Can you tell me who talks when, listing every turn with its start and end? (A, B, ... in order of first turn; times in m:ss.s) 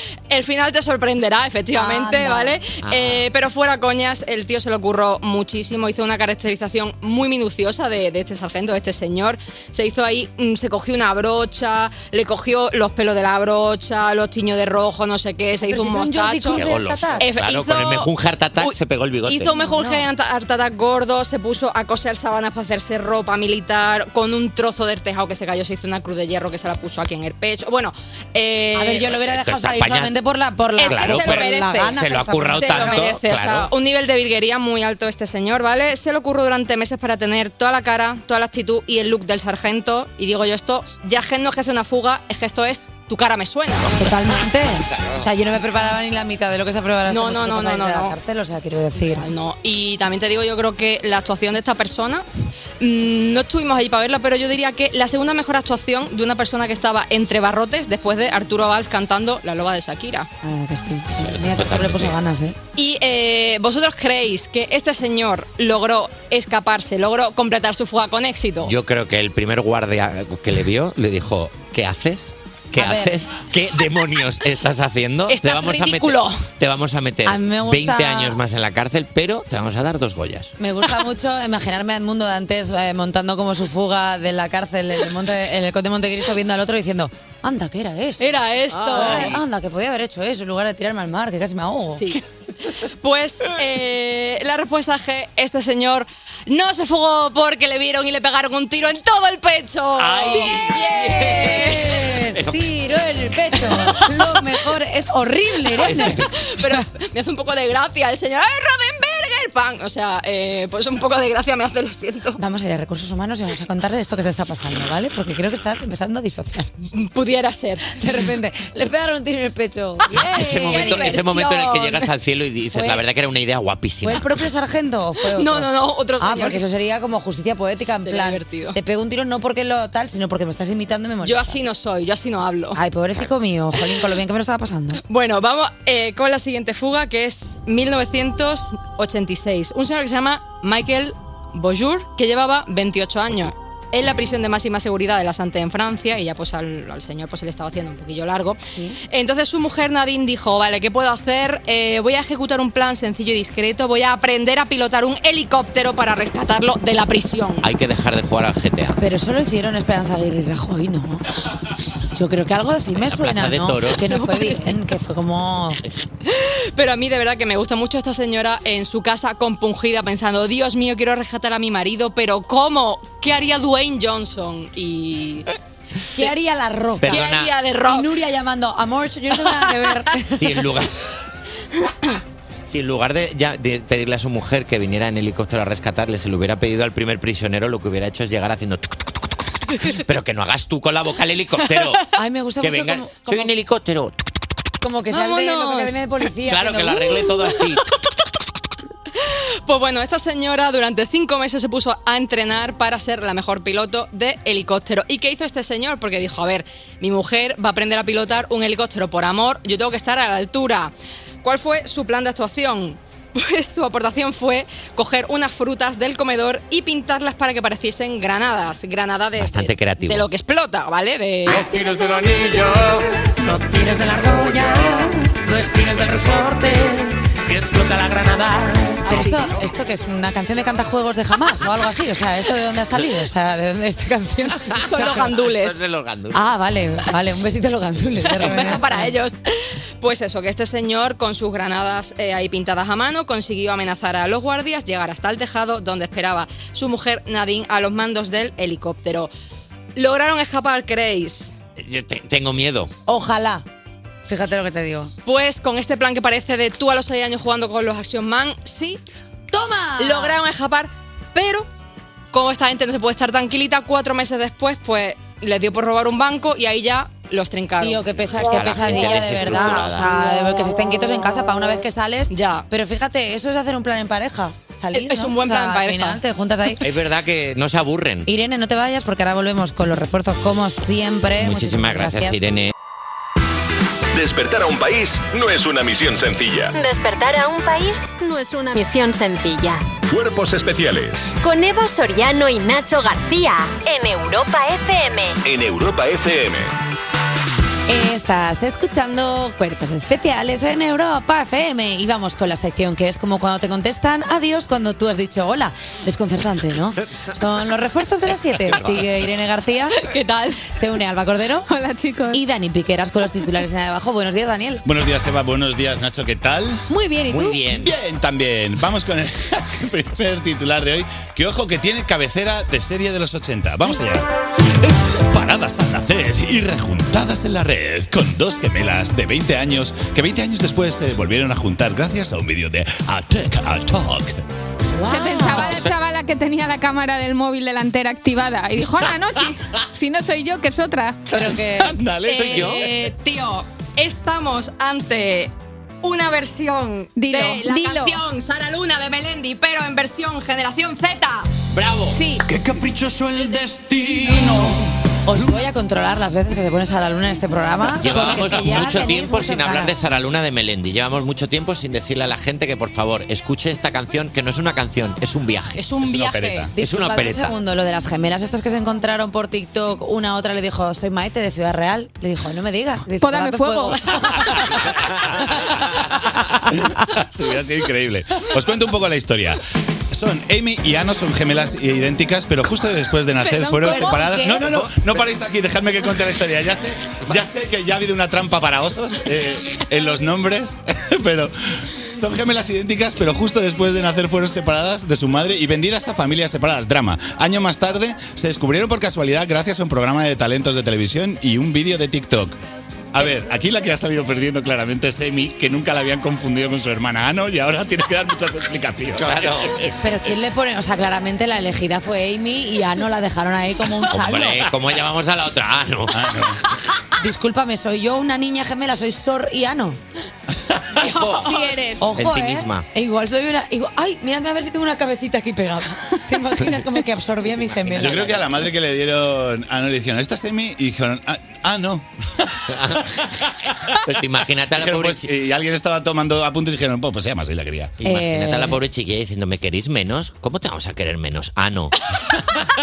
0:00.3-0:29.1 A
0:01.7-0:02.6 B
0:02.8-0:03.2 C
0:15.6-0:17.2 B
0:16.5-0:19.5 C
0:19.5-0:20.0 B
0:28.8-0:33.1 B
0:29.1-0:30.1 C
0:30.8-0:44.0 A
0:30.9-0:33.7 C
0:43.9-0:49.2 B
0:44.9-0:45.2 C
0:47.1-0:48.1 A
0:49.0-0:52.2 A
0:52.8-1:00.3 A
1:00.4-1:02.6 B
1:01.2-1:02.2 C
1:02.8-1:08.7 A
1:08.6-1:20.5 C
1:12.8-1:13.2 B
1:15.3-1:16.4 A
1:17.2-1:18.4 B
1:20.6-1:32.1 B
1:28.2-1:29.4 A
1:28.7-1:29.4 C
1:32.0-1:32.2 A
1:32.8-1:42.0 A
1:40.0-1:42.7 C
1:40.8-1:46.7 B
1:45.8-1:46.3 C
1:45.9-1:52.4 A
1:52.4-1:56.7 B
1:56.9-1:58.2 A
1:57.9-2:01.1 B
2:00.1-2:02.1 A
2:00.3-2:04.3 C
2:02.7-2:03.0 B
2:04.0-2:11.6 B
2:05.3-2:06.6 A
2:08.0-2:08.8 A
2:11.2-2:12.8 A
2:12.7-2:15.0 B
2:15.1-2:37.7 A
2:37.6-2:39.0 C
2:39.0-2:41.2 B
2:42.1-2:45.8 B
2:43.0-2:44.2 C
2:46.2-2:55.5 A
2:56.1-2:57.3 B
2:57.0-2:57.5 C
2:57.0-2:58.2 A
2:57.8-3:00.4 B
3:00.3-3:00.9 C
3:02.7-3:09.0 C
3:09.8-3:12.0 C
3:12.1-3:13.5 B
3:12.6-3:14.1 C
3:14.8-3:17.2 B
3:15.1-3:16.0 A
3:16.4-3:17.8 C
3:19.2-3:41.7 A
3:39.4-3:40.3 C
3:41.5-3:49.0 D
3:49.0-3:49.4 A
3:49.0-3:55.2 B
3:54.7-3:56.5 C
3:54.8-3:55.8 A
3:56.3-3:59.1 B
3:58.4-3:59.4 A
4:00.0-4:09.3 A
4:10.0-4:11.5 A
4:11.8-4:12.9 C
4:13.1-4:13.6 B
4:14.2-4:15.1 B
4:15.2-4:19.0 A
4:19.5-4:20.4 B
4:20.0-4:21.7 A
4:22.3-4:28.0 A
4:27.8-4:36.8 B
4:28.3-4:30.1 C
4:28.8-4:29.2 A
4:32.3-4:32.6 A
4:34.9-4:36.2 A
4:36.8-4:38.3 C
4:38.2-4:42.4 B
4:41.4-4:42.7 C
4:44.1-4:46.7 E
4:46.7-4:49.8 F
4:50.1-4:51.4 E
4:51.4-4:55.4 F
4:55.4-4:56.7 E
4:57.9-5:10.1 B
5:08.7-5:09.0 C
5:10.0-5:10.6 A
5:10.7-5:11.7 B
5:11.7-5:12.4 G
5:12.3-5:14.8 B
5:14.8-5:16.8 H
5:16.9-5:17.6 B
5:17.3-5:17.9 C
5:17.7-5:24.3 H
5:24.8-5:34.4 H
5:35.0-5:35.8 B
5:35.0-5:41.2 G
5:41.3-5:41.9 B
5:41.8-5:43.0 H
5:42.2-5:51.5 A
5:42.4-5:42.8 C
5:47.2-5:48.2 G
5:51.7-5:52.2 C
5:52.1-5:52.4 G
5:52.4-5:54.7 D
5:54.1-5:59.9 B
5:57.9-6:05.8 C
6:05.8-6:06.7 A
6:06.0-6:06.7 H
6:06.8-6:14.8 B
6:06.8-6:07.5 C
6:13.2-6:14.0 G
6:16.7-6:31.5 H
6:23.4-6:24.9 B
6:32.1-6:42.6 H
6:43.1-6:49.9 H
6:49.2-6:49.8 C
6:50.0-6:54.7 B
6:54.1-6:56.2 C
6:56.1-6:56.6 H
6:57.2-7:00.0 B
7:01.0-7:01.6 C
7:01.0-7:02.1 G
7:01.5-7:08.3 B
7:02.1-7:02.8 C
7:07.8-7:08.4 C
7:08.0-7:12.6 H
7:12.7-7:13.1 C
7:13.9-7:15.3 C
7:14.7-7:18.0 H
7:18.0-7:22.0 C
7:18.0-7:18.8 B